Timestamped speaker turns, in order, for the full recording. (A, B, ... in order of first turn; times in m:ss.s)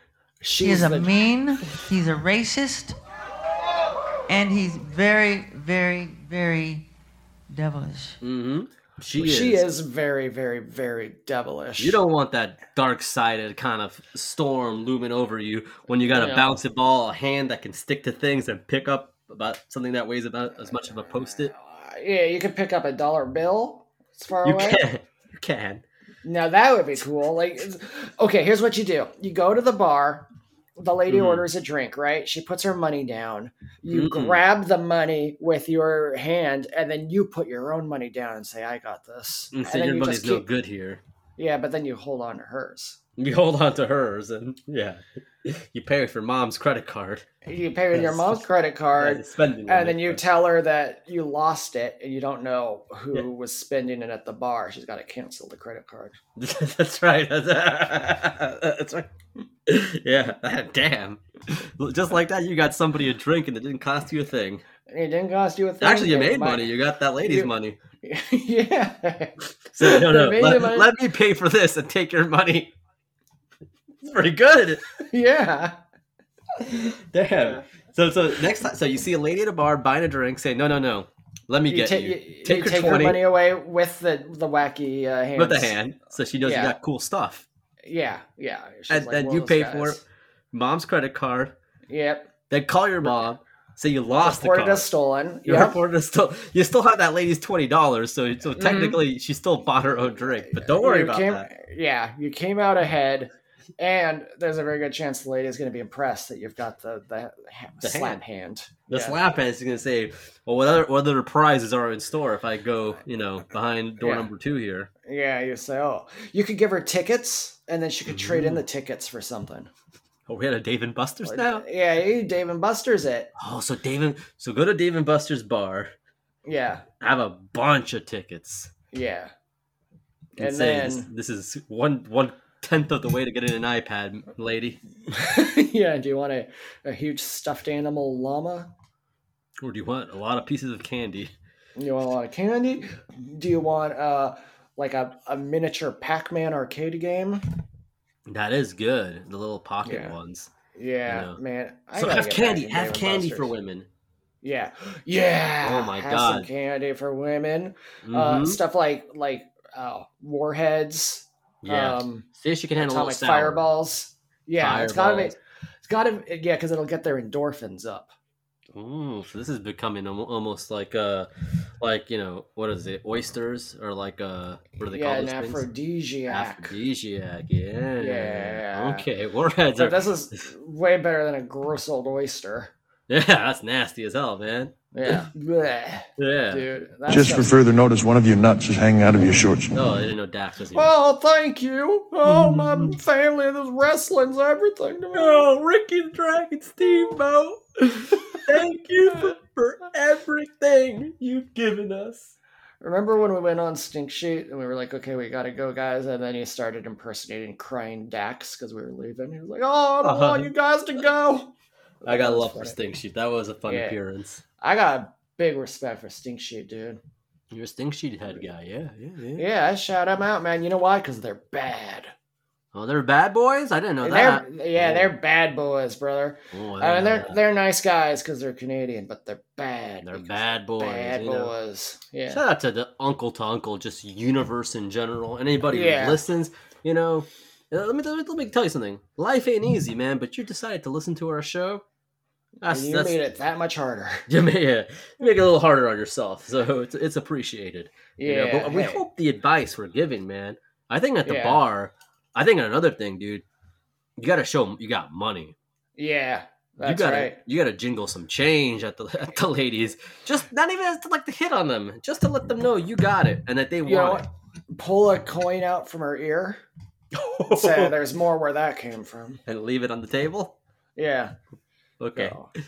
0:00.4-0:01.1 A
0:00.6-0:03.0 B
0:04.3-0:06.8 B
0:07.5-0:08.2 B
0:08.2-0:09.7 C
0:09.2-0:12.0 A
0:11.8-0:21.5 C
0:16.1-0:16.6 A
0:21.2-0:24.8 A
0:24.4-0:25.8 C
0:26.2-0:40.4 A
0:31.1-0:31.5 C
0:33.9-0:34.4 C
0:39.5-0:41.0 C
0:41.4-0:43.0 A
0:43.2-0:47.3 C
0:47.4-0:56.2 A
0:47.9-0:48.4 C
0:48.9-0:50.2 C
0:56.4-0:59.1 C
0:59.7-1:04.6 C
1:04.9-1:06.7 A
1:05.8-1:07.8 C
1:07.2-1:07.5 A
1:08.0-1:10.9 A
1:09.7-1:12.7 C
1:14.0-1:14.8 C
1:15.0-1:15.8 A
1:16.6-1:23.2 C
1:21.7-1:25.8 A
1:25.4-1:27.5 C
1:26.4-1:26.8 A
1:27.8-1:30.0 A
1:28.9-1:31.6 C
1:31.9-1:32.3 A
1:32.5-1:34.9 C
1:34.2-1:35.8 A
1:35.4-1:41.5 C
1:38.6-1:39.0 A
1:40.6-1:49.2 A
1:47.8-1:48.2 C
1:48.9-1:54.9 C
1:54.0-1:54.3 A
1:55.0-1:59.7 A
1:58.1-1:58.6 C
2:00.3-2:01.6 C
2:01.2-2:03.3 A
2:03.4-2:05.9 C
2:06.4-2:06.8 A
2:07.0-2:08.7 C
2:08.9-2:09.3 A
2:10.4-2:11.1 A
2:10.4-2:14.8 C
2:15.1-2:18.7 A
2:19.6-2:21.3 C
2:21.8-2:27.4 A
2:28.2-2:30.5 C
2:29.8-2:30.2 A
2:30.7-2:33.5 A
2:31.1-2:31.4 C
2:31.9-2:33.9 C
2:34.4-2:42.3 A
2:35.6-2:36.5 C
2:38.0-2:38.6 C
2:41.6-2:43.6 C
2:42.8-2:48.1 A
2:44.6-2:45.4 C
2:48.7-2:51.3 C
2:51.8-2:55.6 C
2:54.8-2:56.8 A
2:56.3-3:00.5 C
2:58.0-2:59.0 A
2:59.8-3:02.7 A
3:03.1-3:05.3 C
3:04.9-3:07.7 A
3:06.2-3:06.6 C
3:07.3-3:09.6 D
3:09.7-3:10.9 C
3:10.7-3:15.5 A
3:12.2-3:13.0 C
3:15.1-3:22.3 C
3:22.8-3:32.8 A
3:30.0-3:30.5 C
3:32.0-3:34.4 C
3:33.7-3:34.0 A
3:34.6-3:37.0 A
3:37.5-3:39.4 C
3:39.4-3:42.1 A
3:42.7-3:45.1 C
3:44.0-3:52.4 A
3:46.5-3:47.4 C
3:50.0-3:51.5 C
3:52.3-4:01.8 C
3:55.7-3:56.2 A
4:02.6-4:03.2 C
4:02.6-4:04.3 A
4:04.3-4:13.4 C
4:08.2-4:09.0 A
4:11.2-4:11.6 A
4:14.2-4:15.5 C
4:16.0-4:17.4 A
4:16.8-4:24.2 C
4:23.8-4:26.6 A
4:27.1-4:27.9 C
4:27.4-4:29.4 A
4:29.4-4:30.6 C
4:31.0-4:31.3 A
4:32.0-4:32.4 C
4:32.2-4:32.5 A